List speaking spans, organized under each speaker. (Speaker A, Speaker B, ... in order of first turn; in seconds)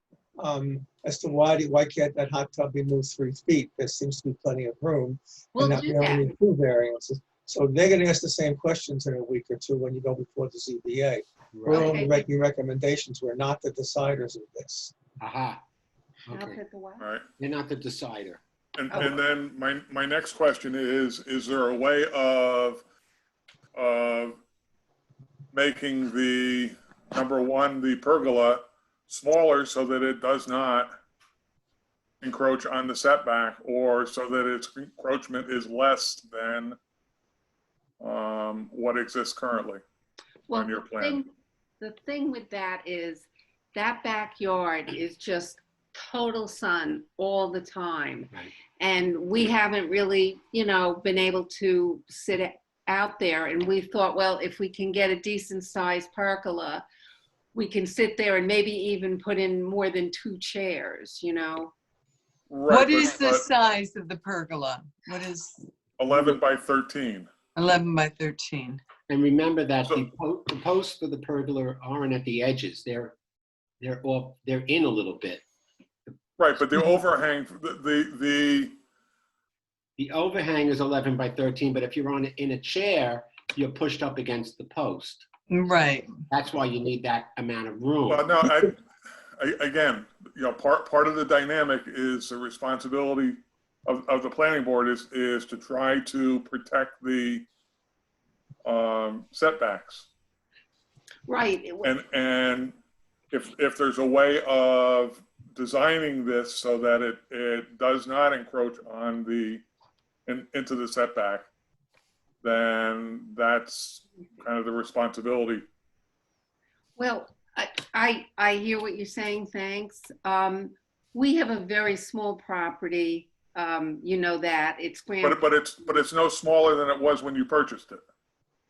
Speaker A: 0.4-14.9
Speaker B: 5.5-6.3, 11.7-12.2, 16.3-17.1, 18.9-19.2, 40.5-56.9, 57.5-61.7, 101.3-101.9, 117.0-125.4
Speaker C: 11.5-12.0, 15.2-15.6, 16.2-16.6, 17.4-18.4, 69.1-73.2, 73.8-75.4, 80.0-85.3, 86.3-88.3
Speaker D: 17.0-17.2, 18.8-22.8, 23.7-24.4, 25.5-30.9, 32.2-36.8, 38.0-39.8, 40.5-41.2, 62.5-63.4, 66.0-67.3, 76.4-78.8, 88.1-88.8, 89.4-97.4, 98.6-100.1, 101.8-102.7, 103.3-109.6, 110.3-111.5, 112.4-115.7, 125.2-128.0
Speaker E: 62.7-65.7, 67.5-68.8, 85.5-86.1